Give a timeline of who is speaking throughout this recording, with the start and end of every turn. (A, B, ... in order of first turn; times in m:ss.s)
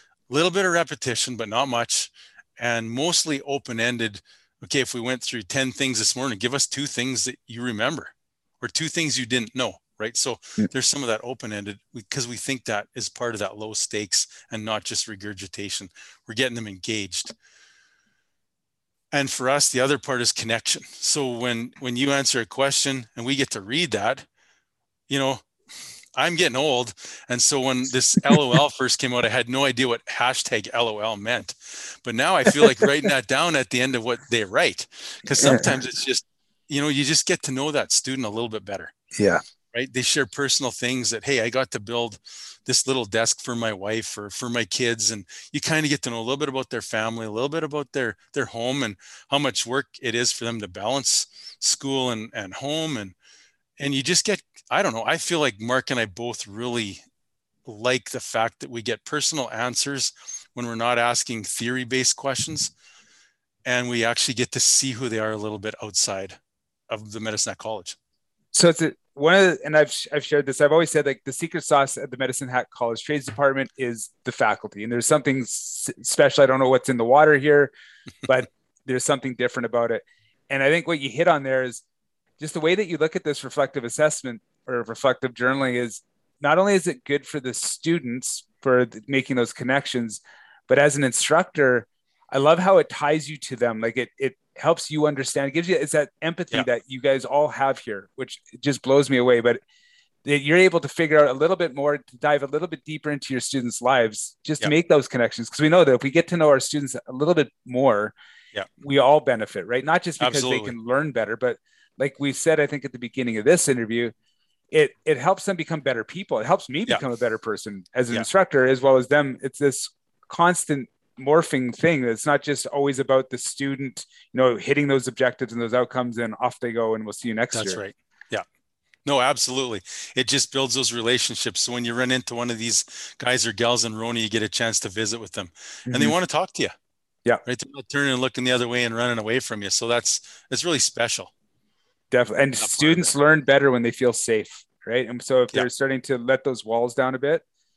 0:00.3-0:17.3 A
0:19.1-0:24.3 A
0:25.1-0:25.5 A
0:26.2-0:38.9 A
0:32.5-0:32.8 B
0:35.4-0:35.8 B
0:39.2-0:39.4 B
0:39.7-0:53.1 A
0:53.8-0:57.0 A
0:57.7-1:02.7 A
1:03.6-1:06.4 A
1:06.9-1:08.0 A
1:08.5-1:17.7 B
1:18.3-1:21.8 B
1:22.4-1:39.6 B
1:40.2-1:48.1 B
1:48.8-1:54.1 B
1:50.2-1:50.7 A
1:54.7-2:07.8 B
2:07.5-2:08.4 A
2:09.0-2:16.7 A
2:15.9-2:16.2 B
2:17.4-2:21.3 A
2:22.1-2:27.4 B
2:22.6-2:23.1 A